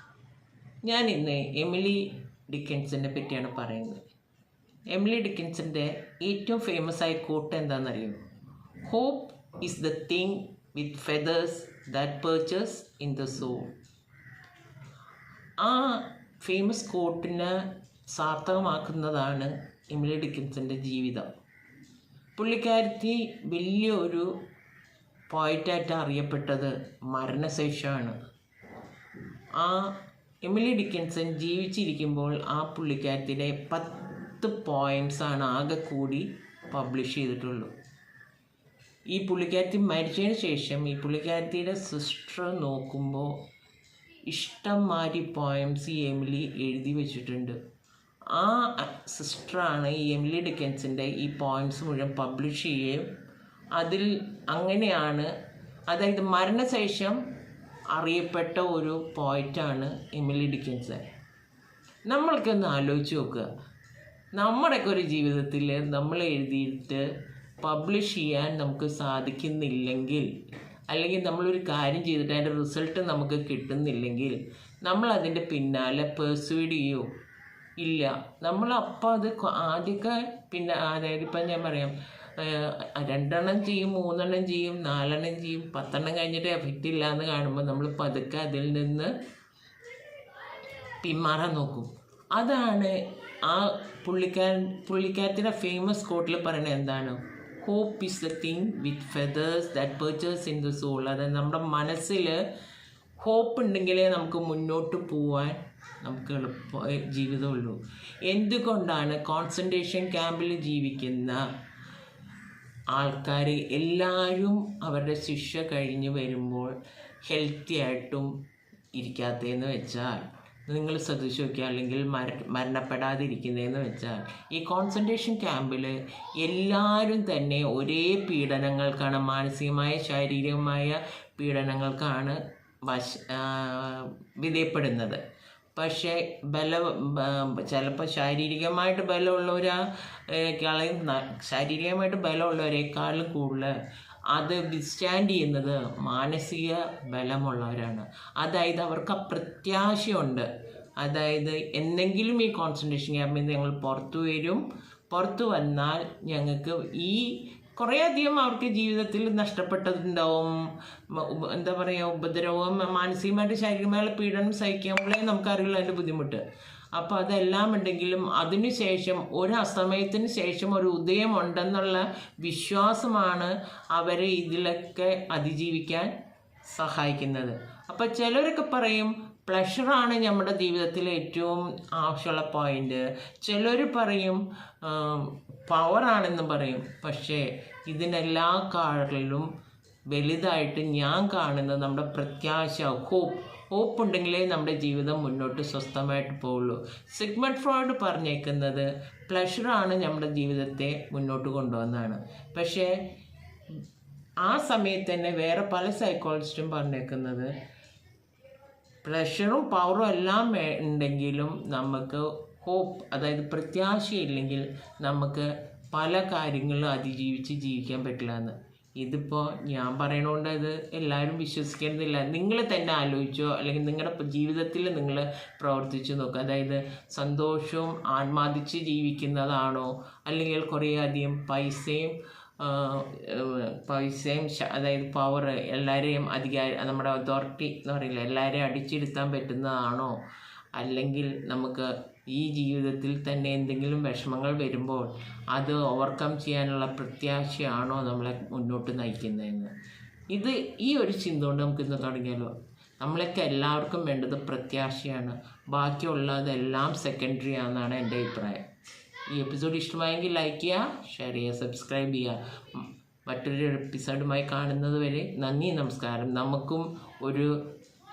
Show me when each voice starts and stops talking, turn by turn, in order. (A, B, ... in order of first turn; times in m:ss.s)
0:00.8-0:04.0 A
0:04.9-0:08.2 A
0:08.8-0:13.7 A
0:15.6-0:21.3 A
0:22.4-0:24.3 A
0:25.3-0:28.2 A
0:29.6-0:37.7 A
0:39.1-0:43.4 A
0:44.2-0:47.6 A
0:48.3-0:53.1 A
0:53.7-0:55.3 A
0:55.9-0:57.2 A
0:57.9-1:01.1 A
1:02.1-1:03.5 A
1:04.3-1:07.1 A
1:07.6-1:10.3 A
1:10.9-1:17.1 A
1:17.8-1:29.1 A
1:31.0-1:42.4 A
1:43.2-1:51.5 A
1:52.9-1:58.3 A
1:58.9-2:15.2 A
2:15.7-2:23.7 A
2:24.3-2:40.5 A
2:41.1-2:46.4 A
2:46.9-2:56.1 A
2:56.7-3:09.5 A
3:10.1-3:23.0 A
3:24.4-3:27.5 A
3:29.0-4:00.2 A
4:00.7-4:09.7 A
4:10.3-4:18.6 A
4:19.3-4:27.7 A